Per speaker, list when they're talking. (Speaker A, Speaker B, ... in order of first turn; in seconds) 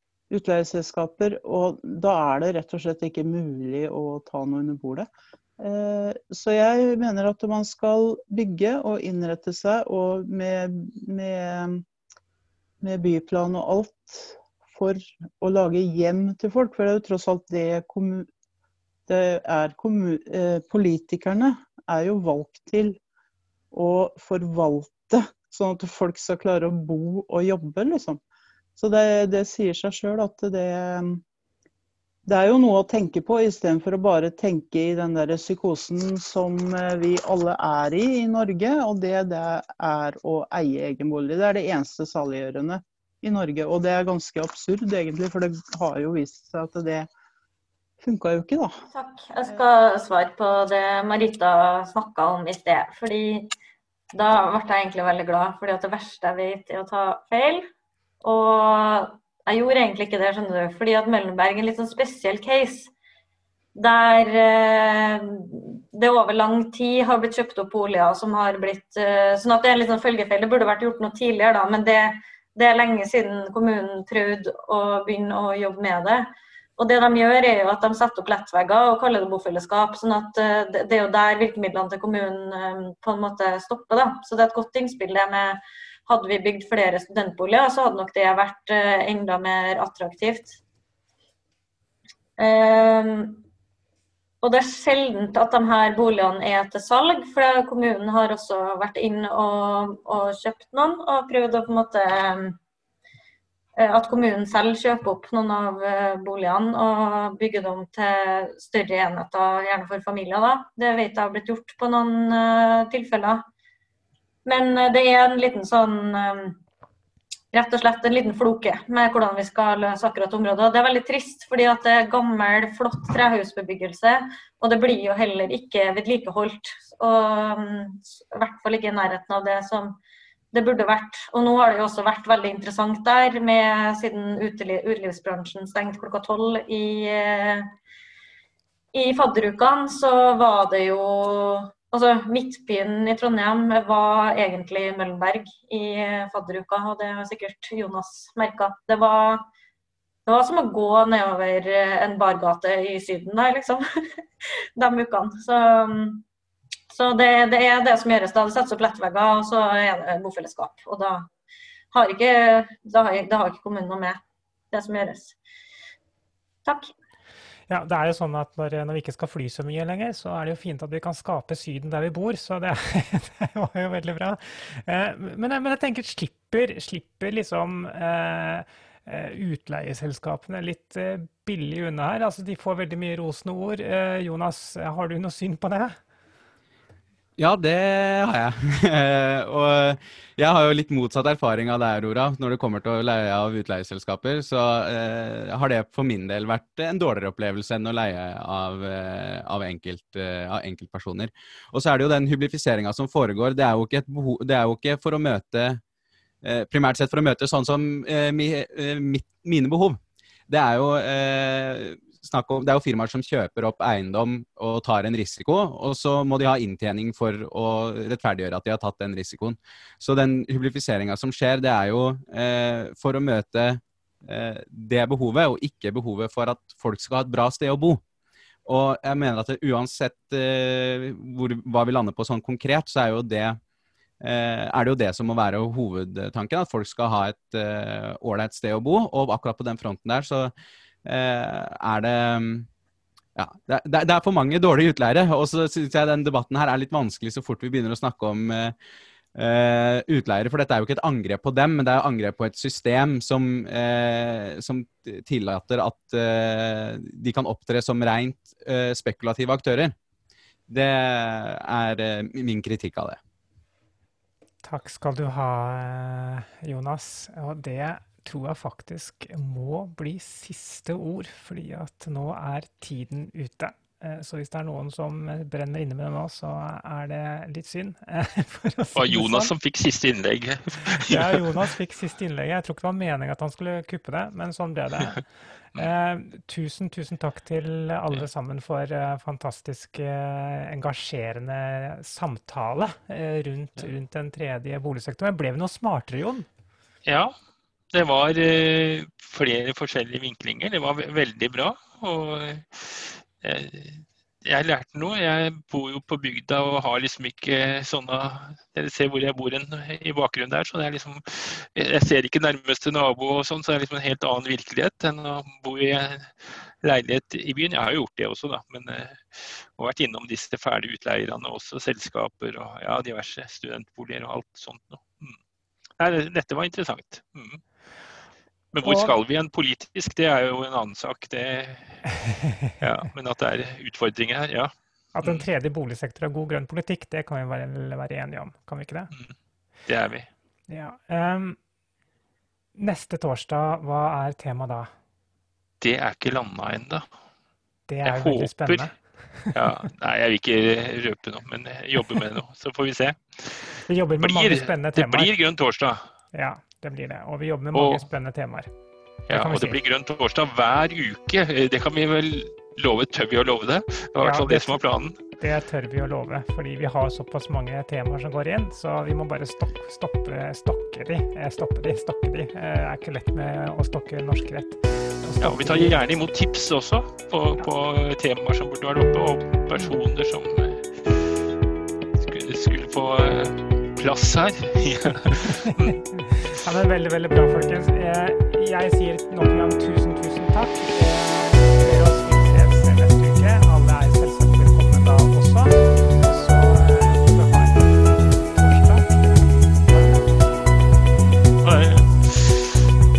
Speaker A: 0.3-5.1, 5.6-11.8, 12.8-18.3, 19.1-23.0, 23.7-28.2, 28.8-31.2, 32.3-47.1, 48.0-48.8
Speaker B: 48.9-53.5, 54.1-57.7, 58.2-62.9, 63.8-90.6, 92.4-93.4, 94.4-102.6, 103.8-113.4, 114.5-116.6, 117.5-130.0, 130.5-137.7, 138.9-149.4, 150.3-154.2, 154.8-156.2, 156.9-161.3, 161.9-164.2, 164.7-165.4, 166.7-166.9
Speaker C: 167.7-186.0, 264.6-279.5, 281.0-296.5, 328.8-329.2, 335.1-339.1, 340.7-341.6, 342.8-344.9, 347.9-349.8, 353.9-355.3, 356.3-358.7, 359.3-359.8, 364.2-376.0, 385.9-400.4
Speaker D: 187.4-205.8, 206.4-228.0, 228.7-233.6, 234.2-240.5, 241.1-242.7, 243.4-248.8, 249.3-259.9, 260.7-263.2
Speaker E: 278.9-281.6, 297.1-297.4, 297.9-325.4, 326.0-327.6, 328.7-332.2, 332.8-334.7, 339.9-340.3, 345.8-347.1, 348.0-348.9, 349.4-356.0, 357.7-358.1, 359.3-365.2, 375.4-381.3, 382.1-385.9, 401.6-402.8